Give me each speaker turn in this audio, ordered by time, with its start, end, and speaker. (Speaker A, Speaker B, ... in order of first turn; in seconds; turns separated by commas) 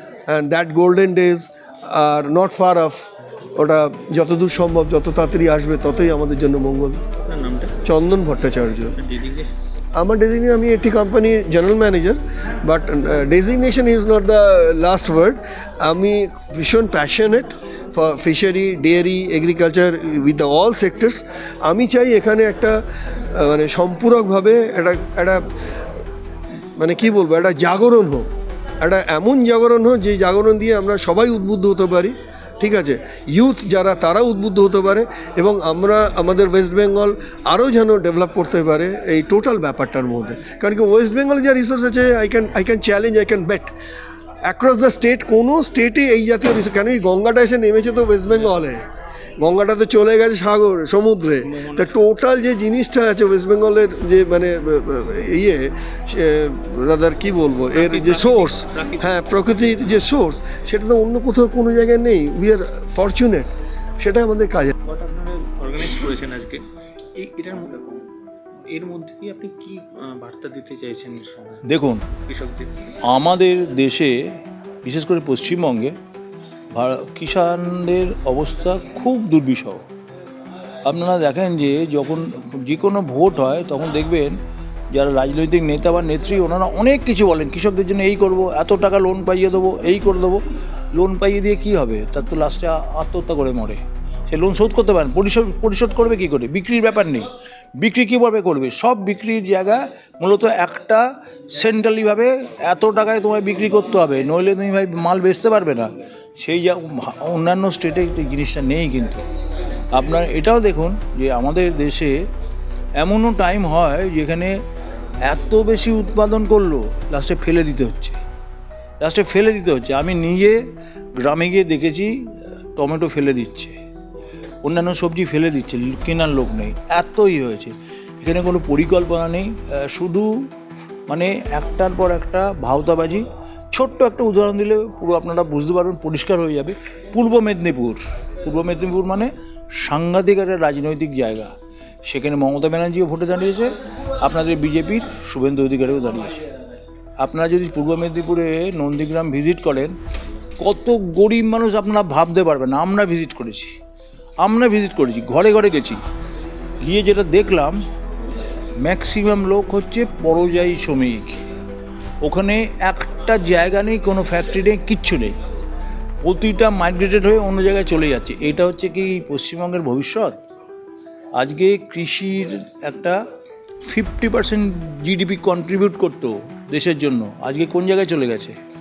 Speaker A: 0.3-7.0, Speaker B: 7.1-9.5, Speaker A: 7.8-8.9, Speaker A: 9.9-22.8, Speaker A: 23.3-25.4, Speaker A: 26.8-28.3, Speaker A: 28.8-43.7, Speaker A: 44.5-48.9, Speaker A: 49.4-63.5, Speaker B: 51.4-51.9, Speaker B: 57.7-60.0, Speaker A: 64.0-64.7, Speaker B: 64.8-68.1, Speaker B: 68.7-72.7, Speaker C: 71.6-72.0, Speaker C: 73.0-76.0, Speaker C: 76.7-79.8, Speaker C: 80.8-84.4, Speaker C: 84.9-90.4, Speaker C: 90.9-97.3, Speaker C: 97.8-109.2, Speaker C: 109.9-112.2, Speaker C: 113.0-114.6, Speaker C: 115.2-118.2, Speaker C: 119.0-120.7, Speaker C: 121.2-122.1, Speaker C: 122.8-123.7, Speaker C: 124.6-130.5, Speaker C: 131.1-141.5, Speaker C: 142.1-146.4, Speaker C: 147.2-149.9, Speaker C: 150.6-153.7, Speaker C: 154.4-156.0, Speaker C: 156.8-157.8, Speaker C: 158.8-161.4, Speaker C: 162.2-165.3, Speaker C: 166.2-170.4, Speaker C: 171.4-173.2, Speaker C: 173.8-178.6